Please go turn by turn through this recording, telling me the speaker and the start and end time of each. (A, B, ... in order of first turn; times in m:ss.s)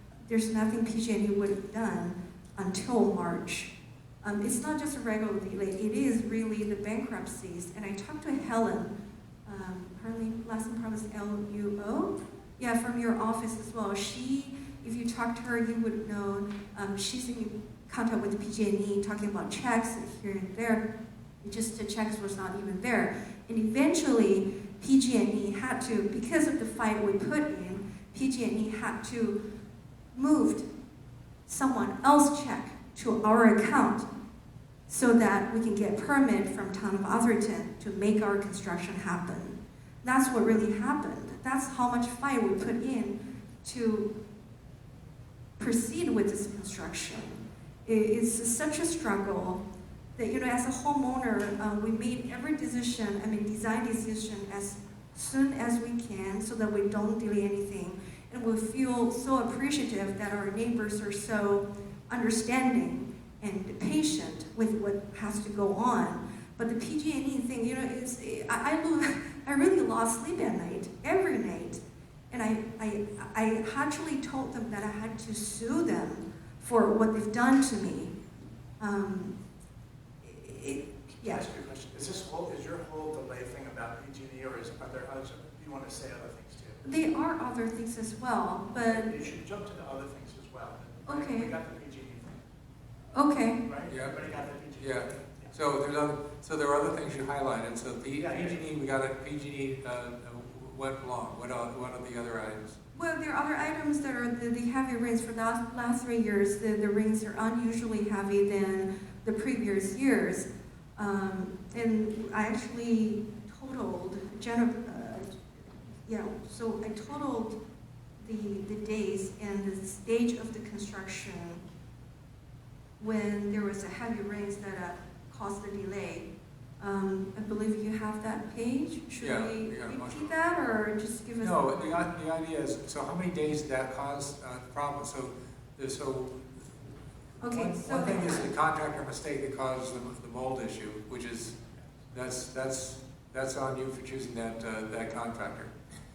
0:00.3-0:03.7 A
0:04.2-0:08.9 A
0:09.4-0:20.8 A
0:21.4-0:29.4 A
0:30.1-0:30.7 A
0:31.4-0:34.1 A
0:34.9-0:44.1 A
0:45.6-0:49.6 A
0:50.2-1:18.1 A
1:18.8-1:19.3 A
1:20.2-1:21.4 A
1:21.2-1:26.8 B
1:26.8-1:29.1 A
1:28.7-1:32.4 B
1:31.0-1:31.5 A
1:33.1-1:33.6 A
1:33.6-1:35.5 B
1:33.9-1:34.1 C
1:34.8-1:42.8 C
1:38.2-1:38.6 B
1:42.9-1:55.3 A
1:56.0-1:57.6 A
1:58.2-2:01.6 A
2:03.0-2:06.3 A
2:06.8-2:12.0 A
2:09.2-2:10.3 C
2:11.4-2:16.7 C
2:17.4-2:18.5 A
2:17.5-2:21.6 C
2:22.1-2:25.7 C